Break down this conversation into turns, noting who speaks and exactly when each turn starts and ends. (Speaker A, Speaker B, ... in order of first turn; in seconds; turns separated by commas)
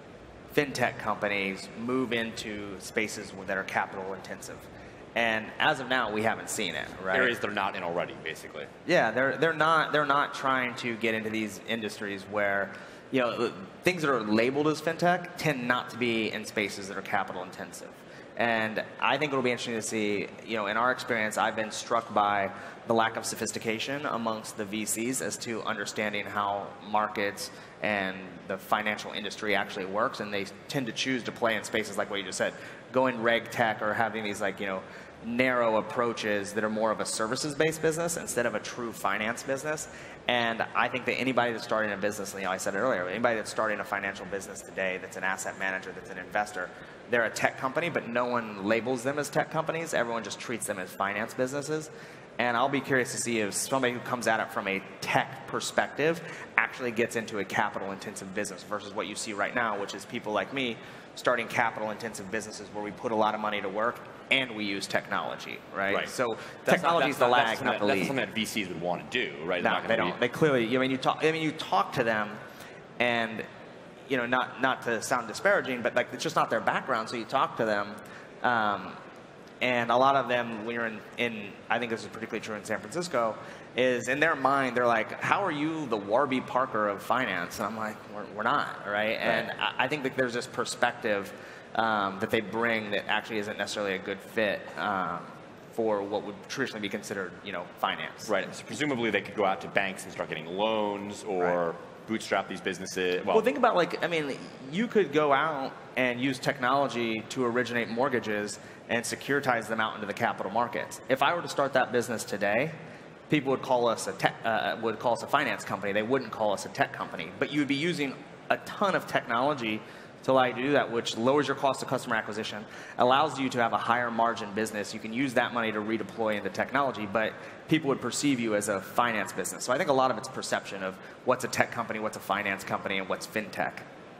Speaker A: 0.5-7.3, Speaker B: 7.1-8.7, Speaker A: 8.8-68.2, Speaker B: 66.6-70.2, Speaker A: 69.6-72.4, Speaker A: 73.0-73.5, Speaker A: 74.1-79.0, Speaker A: 79.6-98.3, Speaker B: 89.2-89.5, Speaker B: 98.2-103.5, Speaker A: 103.3-112.8, Speaker A: 113.3-133.8